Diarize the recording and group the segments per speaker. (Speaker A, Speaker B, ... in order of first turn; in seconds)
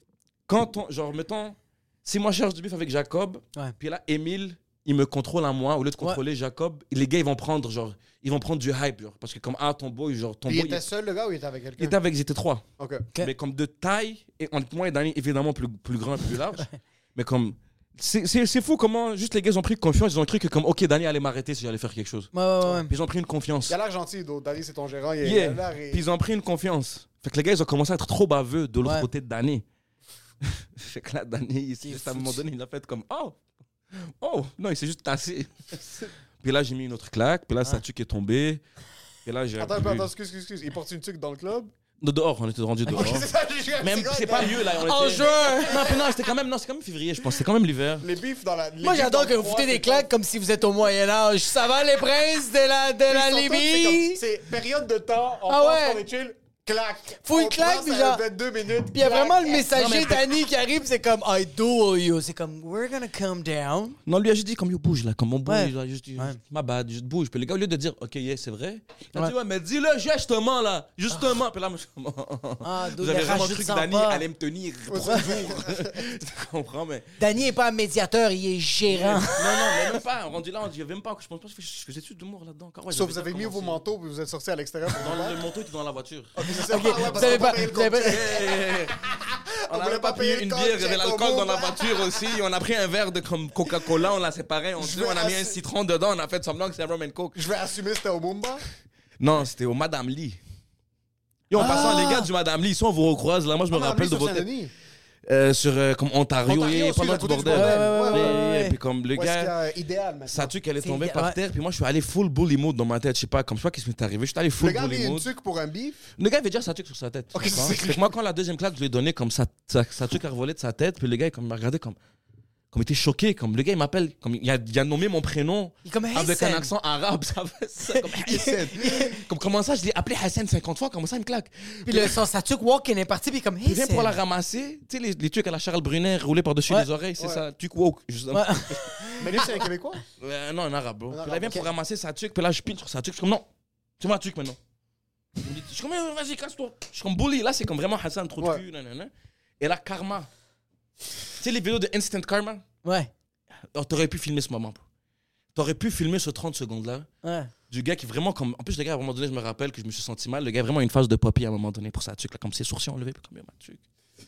Speaker A: 0.5-10.8, 11.8-12.6, 13.2-23.8, 25.2-29.6, 30.4-33.4, 34.2-38.6, 39.2-40.1, 42.0-43.3, 43.8-48.1, 59.7-60.3, 64.1-77.1, 78.9-83.8, 85.0-89.0, 89.7-97.4, 99.2-100.4, 101.5-104.5, 105.2-109.5, 110.3-115.3, 116.2-122.0, 122.7-132.2, 133.6-139.6, 140.2-143.5, 144.0-144.6, 145.4-150.3, 151.4-152.6, 153.7-154.8, 155.5-157.1, 157.7-163.8
Speaker B: 10.5-12.0, 12.8-13.1, 23.7-26.0, 39.6-41.7, 42.9-44.7, 45.2-46.1, 48.0-50.1, 53.1-59.7, 74.9-76.0, 82.9-85.4, 86.4-92.4, 94.8-95.6, 97.3-98.6, 101.6-102.1, 103.7-104.7, 106.5-108.4, 109.1-110.5, 114.6-116.0, 117.3-118.1, 139.2-140.0, 141.1-141.7
Speaker C: 22.3-22.9, 31.8-32.4, 44.8-45.9, 48.8-54.2, 55.5-56.0, 57.2-58.2, 58.9-64.0, 65.5-66.4, 72.6-74.2, 77.2-79.4, 86.7-88.2, 101.5-102.3, 107.5-108.8, 110.8-111.4, 125.8-126.7, 127.9-129.2, 131.9-134.2, 138.3-138.8, 152.8-153.1, 157.2-157.5